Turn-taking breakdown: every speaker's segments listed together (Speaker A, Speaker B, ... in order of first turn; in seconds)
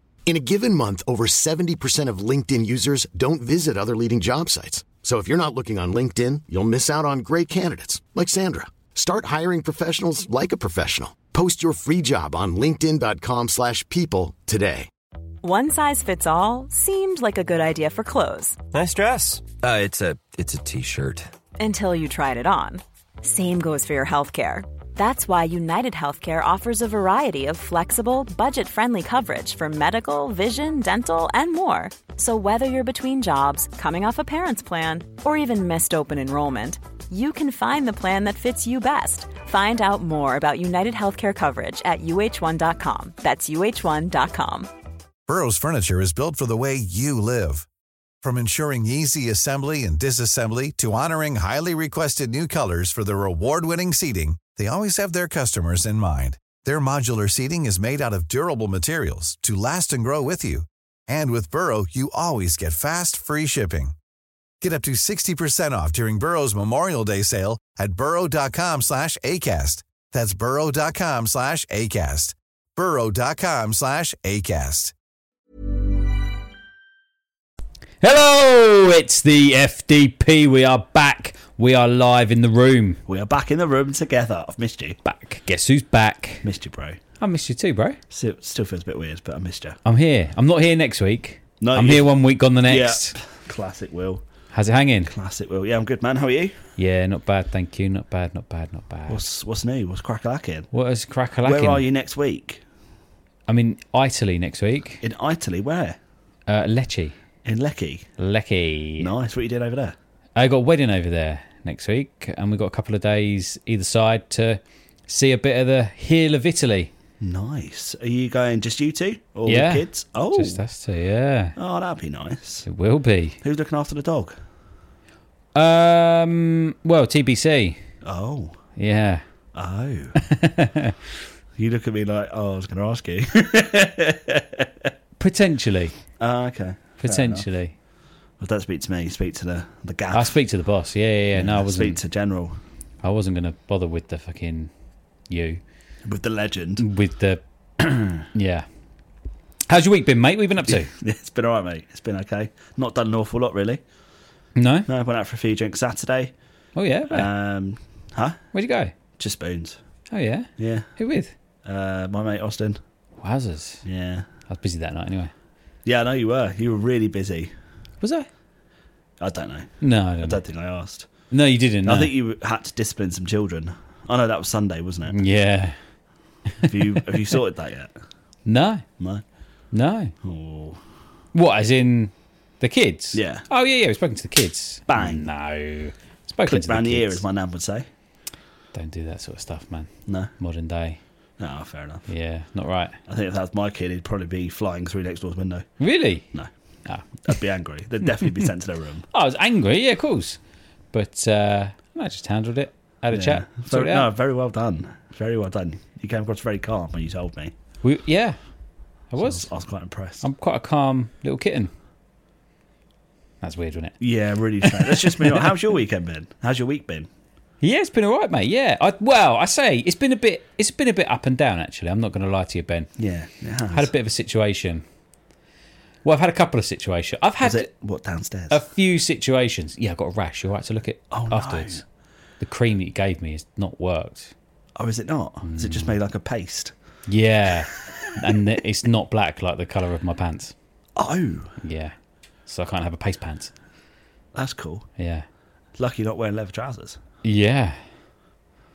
Speaker A: 0.3-14.9
Speaker B: 15.4-18.6, 21.6-44.7
Speaker C: 18.7-21.3
Speaker D: 45.3-47.7, 48.2-64.0, 64.6-74.9
Speaker E: 78.0-83.0, 85.0-86.5, 87.2-88.0, 89.9-93.2, 94.5-95.1, 96.8-99.3, 100.7-101.8, 103.5-105.0, 106.5-107.2, 108.2-109.1, 110.4-116.9, 119.5-121.6, 122.7-123.4, 125.5-127.8, 128.8-129.2, 130.2-131.0, 135.2-136.0, 137.0-137.7, 140.1-142.0, 143.0-144.7, 145.3-145.6, 146.8-147.4, 148.3-148.7, 149.7-150.9, 154.6-154.9, 156.8-157.3, 158.5-158.9, 160.1-161.3, 163.2-163.8, 164.5-165.3, 168.0-168.3, 169.8-170.4, 171.3-172.1, 175.1-175.8, 176.6-177.0, 178.5-178.8, 179.7-180.1, 181.3-187.2, 188.7-191.0, 192.1-192.9, 195.8-196.3, 199.1-200.4, 200.9-204.1, 207.8-208.4, 209.1-209.5, 210.2-211.7, 213.4-214.0, 214.7-215.5, 217.6-222.9, 223.7-224.8, 226.0-227.7, 228.5-231.8, 232.4-234.3, 235.4-235.9, 237.1-240.5, 241.6-241.9, 242.5-243.5, 245.0-245.3, 247.2-247.8
Speaker F: 83.1-85.0, 86.4-87.0, 88.1-89.8, 91.6-92.1, 92.7-94.2, 95.1-96.6, 99.1-100.7, 101.4-102.6, 105.0-106.0, 107.5-108.1, 109.0-110.0, 117.2-120.6, 121.6-122.7, 123.4-124.4, 128.0-128.6, 129.6-130.2, 131.6-134.9, 136.2-137.5, 138.4-140.4, 141.4-142.6, 146.1-146.8, 150.7-153.8, 154.9-156.3, 157.1-158.4, 159.2-159.8, 160.6-160.9, 161.7-162.8, 163.8-164.3, 165.8-167.5, 169.2-171.1, 171.9-175.2, 176.7-177.9, 180.2-180.8, 183.1-183.4, 184.9-185.3, 186.5-187.9, 191.4-192.1, 193.1-195.7, 197.2-199.1, 203.1-207.5, 209.2-210.3, 214.0-217.1, 223.0-223.9, 227.4-228.6, 231.1-231.8, 234.8-236.7, 237.8-238.1, 241.0-241.6, 244.3-244.9, 245.8-247.0